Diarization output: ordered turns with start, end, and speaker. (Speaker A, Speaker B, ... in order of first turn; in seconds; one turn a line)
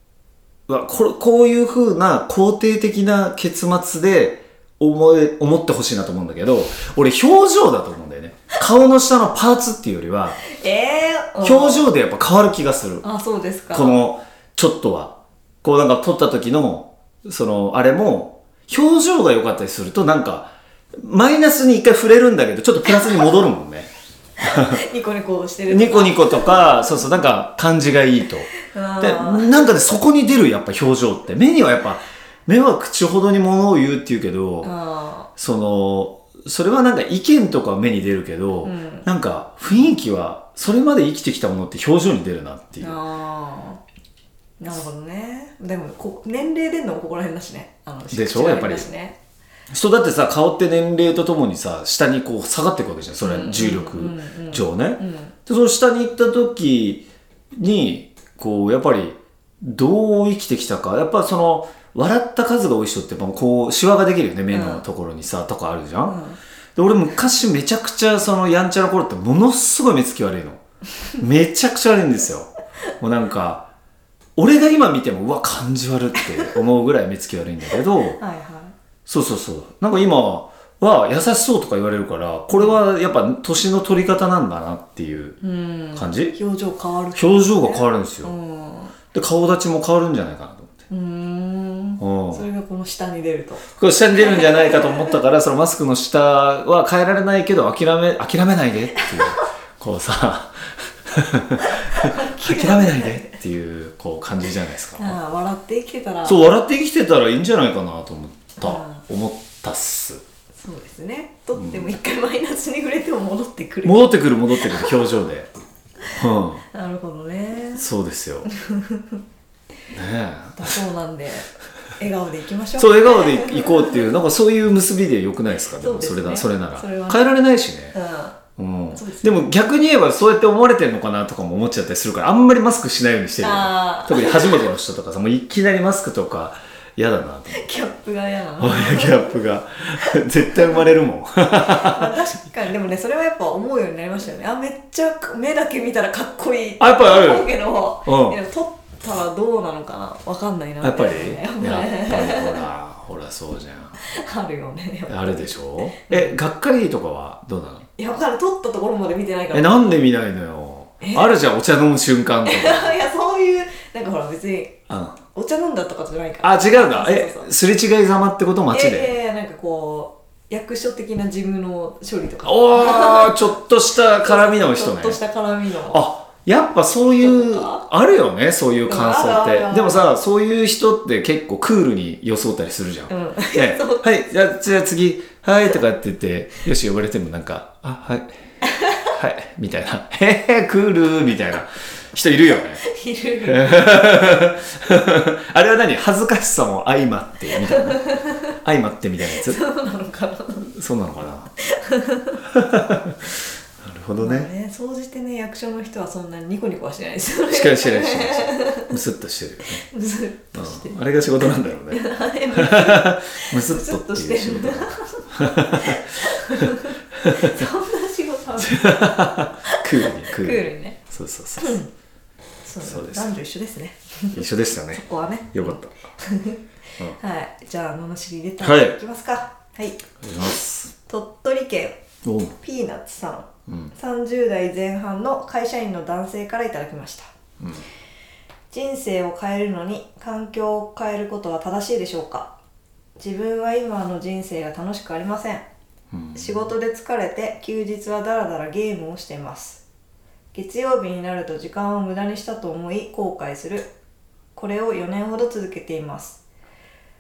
Speaker A: 0.7-10.4
Speaker B: 10.5-11.9
Speaker A: 11.4-13.1
Speaker B: 13.0-14.0
Speaker A: 13.7-23.9
Speaker B: 22.9-23.1
Speaker A: 24.4-24.8
Speaker B: 24.4-27.0
Speaker A: 25.7-34.7
Speaker B: 28.6-29.7
Speaker B: 34.6-35.3
Speaker A: 35.4-43.0
Speaker B: 38.6-39.1
Speaker B: 42.8-43.8
Speaker B: 44.6-49.2
Speaker A: 48.1-48.9
Speaker A: 49.7-66.2
Speaker B: 53.2-55.4
Speaker B: 64.5-64.8
Speaker B: 66.0-66.4
Speaker A: 66.8-70.6
Speaker A: 71.2-73.7
Speaker A: 74.4-78.2
Speaker B: 78.2-78.8
Speaker A: 79.1-85.4
Speaker B: 82.5-82.8
Speaker B: 85.4-89.0
Speaker A: 85.9-86.4
Speaker A: 87.2-88.3
Speaker A: 89.1-90.7
Speaker B: 90.9-93.6
Speaker A: 92.0-92.5
Speaker A: 93.8-105.2
Speaker B: 94.2-95.2
Speaker B: 99.1-99.4
Speaker B: 101.6-103.3
Speaker B: 105.0-106.4
Speaker A: 106.2-110.2
Speaker B: 108.6-109.0
Speaker B: 110.6-115.0
Speaker A: 111.5-111.9
Speaker A: 113.8-115.5
Speaker A: 116.1-116.6
Speaker B: 116.7-117.8
Speaker A: 117.8-118.5
Speaker B: 118.5-119.2
Speaker A: 119.9-120.7
Speaker B: 120.6-124.0
Speaker A: 122.8-128.0
Speaker B: 125.8-127.3
Speaker B: 127.9-128.4
Speaker A: 128.6-137.7
Speaker B: 128.9-129.5
Speaker B: 133.4-134.7
Speaker B: 137.5-139.4
Speaker A: 138.6-142.1
Speaker B: 140.4-140.8
Speaker B: 141.5-152.7
Speaker A: 146.8-147.5
Speaker A: 148.1-148.4
Speaker A: 150.8-154.0
Speaker B: 154.0-156.4
Speaker A: 155.1-157.9
Speaker B: 158.0-159.9
Speaker A: 159.5-163.0
Speaker B: 161.0-161.4
Speaker B: 162.4-164.8
Speaker A: 164.9-165.2
Speaker B: 165.3-167.5
Speaker A: 166.4-169.2
Speaker B: 168.7-176.0
Speaker A: 172.4-175.2
Speaker A: 175.9-188.3
Speaker B: 177.2-177.8
Speaker B: 178.9-180.1
Speaker B: 183.1-184.1
Speaker A: 189.1-192.8
Speaker B: 192.8-194.1
Speaker A: 193.4-199.6
Speaker B: 197.7-198.4
Speaker B: 199.3-200.7
Speaker A: 200.7-201.5
Speaker B: 201.7-202.4
Speaker A: 202.5-203.3
Speaker A: 203.8-204.5
Speaker B: 204.2-209.0
Speaker A: 207.5-209.8
Speaker B: 209.8-221.0
Speaker A: 210.5-216.0
Speaker A: 216.6-217.6
Speaker A: 218.6-221.8
Speaker B: 221.6-221.9
Speaker B: 222.6-230.0
Speaker A: 222.8-223.3
Speaker A: 224.3-225.9
Speaker A: 228.6-229.0
Speaker A: 230.2-230.9
Speaker B: 231.1-232.0
Speaker A: 232.2-232.6
Speaker B: 232.6-237.3
Speaker A: 233.7-233.9
Speaker B: 238.7-242.5
Speaker B: 243.2-245.7
Speaker A: 246.1-246.7
Speaker B: 246.3-249.8
Speaker B: 250.5-253.9
Speaker B: 254.6-256.4